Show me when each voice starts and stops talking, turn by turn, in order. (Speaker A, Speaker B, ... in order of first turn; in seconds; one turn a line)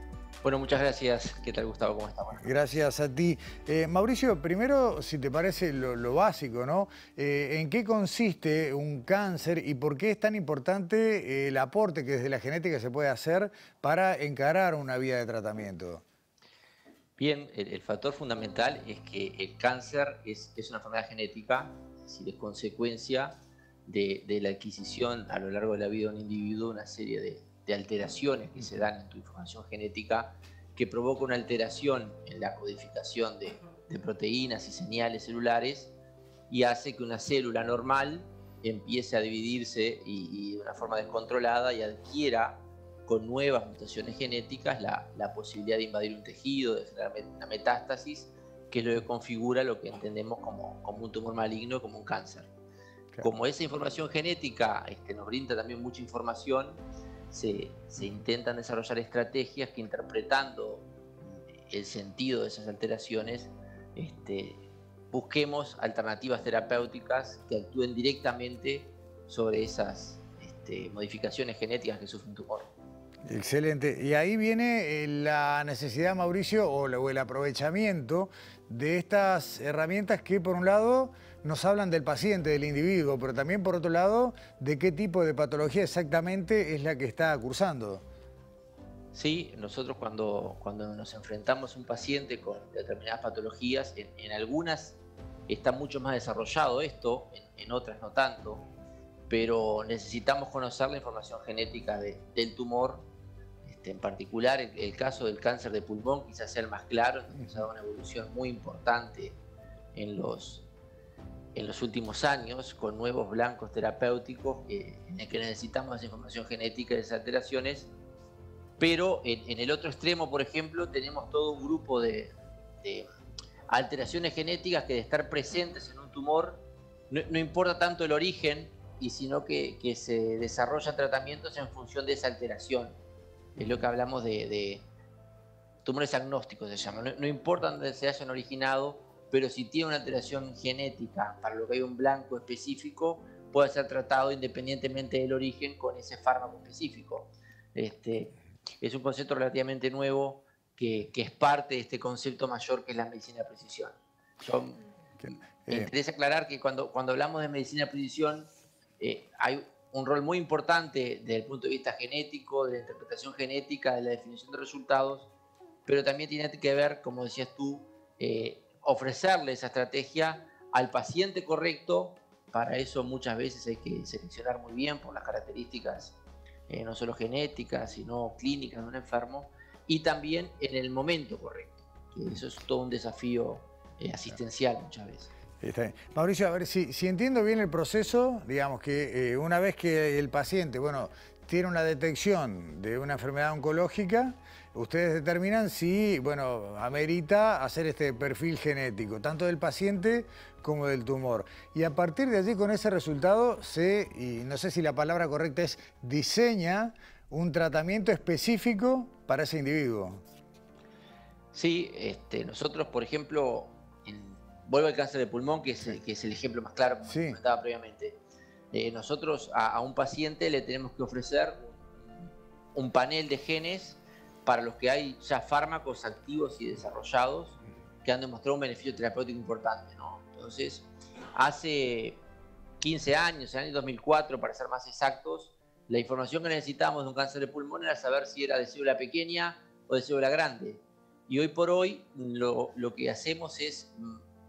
Speaker A: 0.4-2.5
Speaker B: 2.4-16.0
Speaker A: 17.2-23.3
Speaker A: 23.9-35.9
Speaker A: 36.5-52.5
Speaker A: 53.2-72.7
Speaker B: 73.2-88.0
Speaker A: 89.1-95.0
Speaker A: 95.5-98.6
Speaker A: 99.3-103.0
Speaker A: 103.6-109.4
Speaker A: 109.9-110.7
Speaker A: 111.5-117.9
Speaker A: 118.8-123.1
Speaker A: 123.7-132.9
Speaker A: 133.6-134.8
Speaker A: 135.8-158.5
Speaker B: 155.2-155.9
Speaker A: 159.0-165.3
Speaker A: 165.8-176.1
Speaker A: 176.7-185.3
Speaker B: 185.6-210.2
Speaker A: 211.5-218.2
Speaker B: 217.1-217.4
Speaker A: 218.7-232.2
Speaker A: 232.8-244.2